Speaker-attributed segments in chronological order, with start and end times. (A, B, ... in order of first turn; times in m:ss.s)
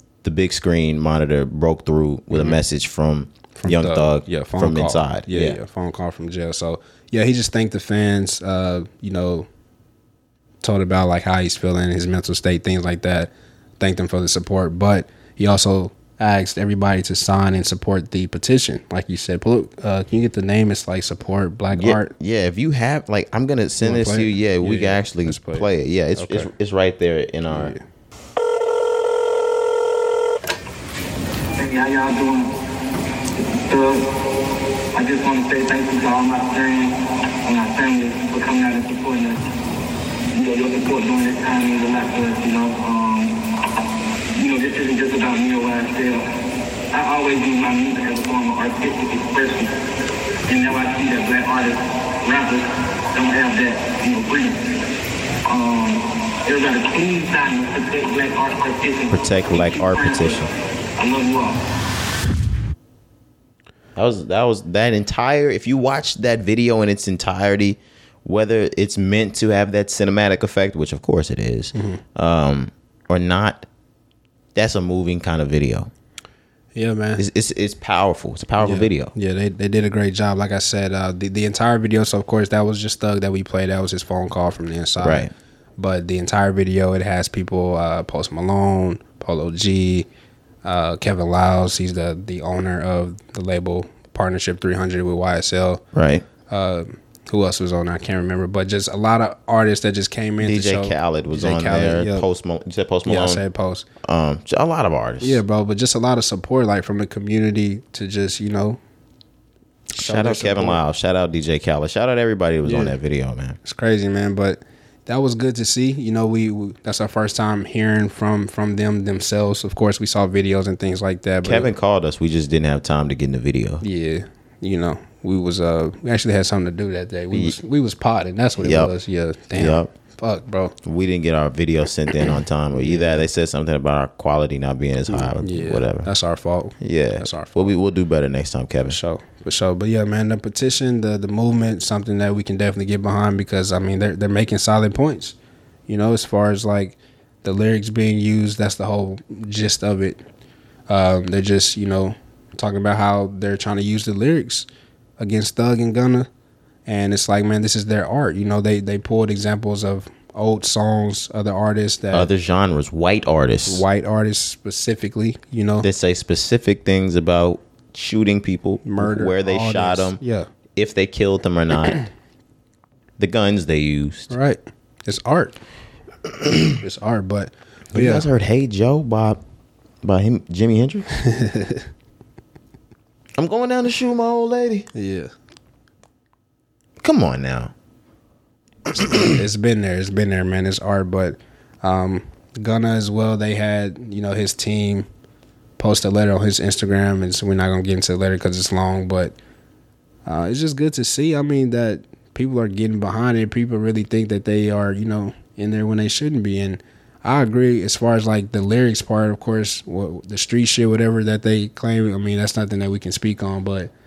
0:00.2-0:05.6 A
0:02.3-0:02.6 B
0:03.6-0:09.5 B
0:10.6-0:22.1 B
0:21.7-0:27.8 A
0:23.8-0:26.5 B
0:27.5-0:27.8 B
0:31.6-0:32.6 C
0:33.4-0:34.2 C
0:34.9-0:39.4 C
0:40.3-0:43.4 C
0:44.4-0:46.3 C
0:46.9-0:49.7 C
0:50.5-0:54.7 C
0:55.5-1:01.6 C
0:59.1-1:00.5 A
1:04.0-1:13.7 A
1:11.8-1:12.0 B
1:14.6-1:15.9 A
1:16.8-1:17.2 B
1:17.2-1:19.1 A
1:18.6-1:30.1 B
1:25.0-1:25.3 A
1:30.6-1:35.8 B
1:36.0-1:36.2 A
1:36.5-1:42.3 B
1:40.4-1:43.4 A
1:43.0-1:43.9 B
1:44.0-1:45.4 A
1:45.2-1:48.8 B
1:49.9-1:50.8 B
1:50.0-1:53.6 A
1:52.6-1:53.0 B
1:53.6-2:01.7 B
2:01.4-2:03.8 A
2:03.8-2:10.7 B
2:08.6-2:08.9 A
2:09.5-2:09.9 A
2:10.8-2:16.1 A
2:12.7-2:13.2 B
2:15.1-2:17.7 B
2:16.8-2:19.0 A
2:18.9-2:25.4 B
2:25.9-2:30.2 B
2:30.9-2:36.3 B
2:36.9-2:42.3 B
2:42.1-2:43.8 A
2:43.7-2:45.9 B
2:45.8-2:50.2 A
2:48.8-2:50.5 B
2:50.8-2:52.1 A
2:53.2-2:54.3 A
2:54.3-2:55.6 B
2:56.8-2:58.3 B
2:57.9-2:59.4 A
3:00.0-3:01.1 A
3:01.2-3:01.9 B
3:03.4-3:04.9 A
3:04.9-3:05.3 B
3:07.0-3:07.7 A
3:09.0-3:15.1 B
3:09.0-3:09.3 A
3:15.8-3:19.4 B
3:20.3-3:33.9 B